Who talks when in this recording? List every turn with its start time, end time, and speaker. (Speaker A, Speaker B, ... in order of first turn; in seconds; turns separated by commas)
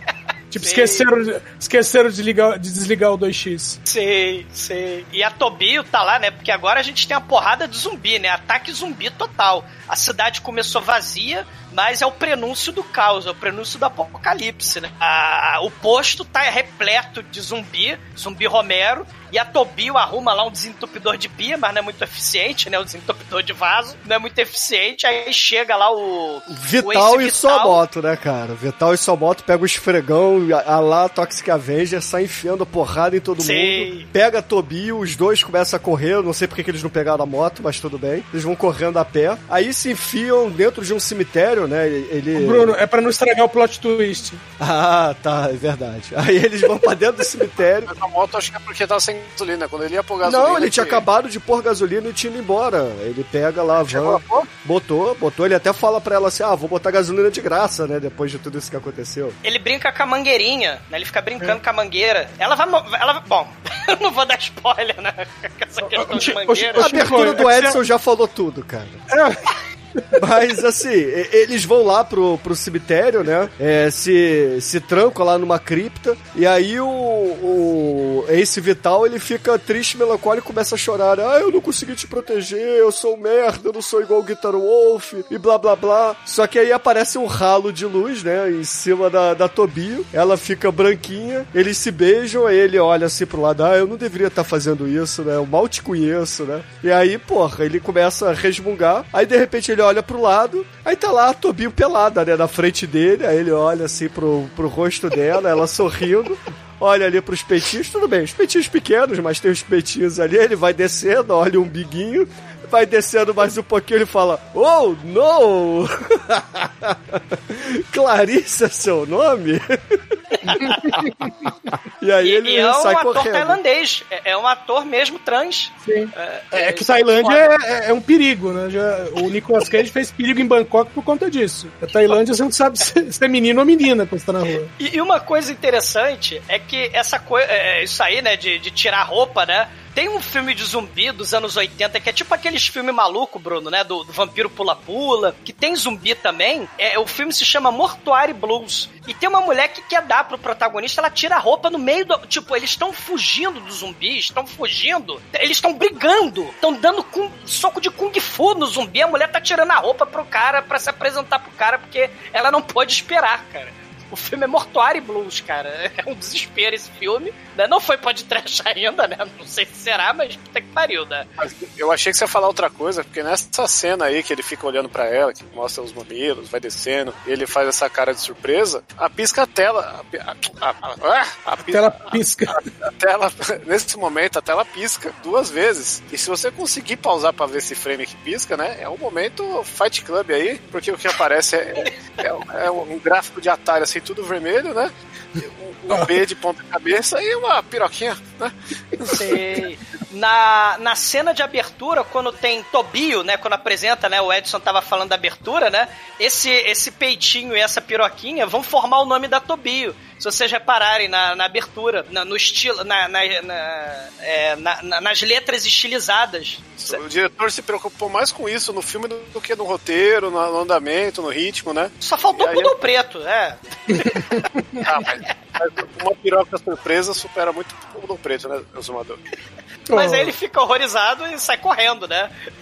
Speaker A: 0.5-3.8, Speaker B: 0.6-1.1, Speaker B: 3.9-27.8, Speaker C: 26.5-42.8, Speaker B: 33.4-34.1, Speaker A: 42.3-44.4, Speaker C: 44.6-47.9, Speaker D: 47.9-51.0, Speaker C: 50.2-59.4, Speaker D: 53.9-54.5, Speaker B: 59.4-67.0, Speaker A: 65.9-67.8, Speaker C: 66.7-69.0, Speaker A: 69.1-69.4, Speaker C: 70.1-120.6, Speaker B: 120.4-121.0, Speaker A: 120.5-121.5, Speaker C: 122.0-123.6, Speaker B: 122.2-127.5, Speaker A: 125.8-134.7, Speaker B: 134.8-171.3, Speaker D: 171.4-182.0, Speaker A: 181.7-182.6, Speaker D: 182.5-199.2, Speaker B: 199.1-217.0, Speaker D: 216.8-222.7, Speaker B: 222.0-224.4, Speaker A: 223.9-224.8, Speaker D: 224.8-229.2, Speaker A: 229.9-230.3, Speaker B: 229.9-232.3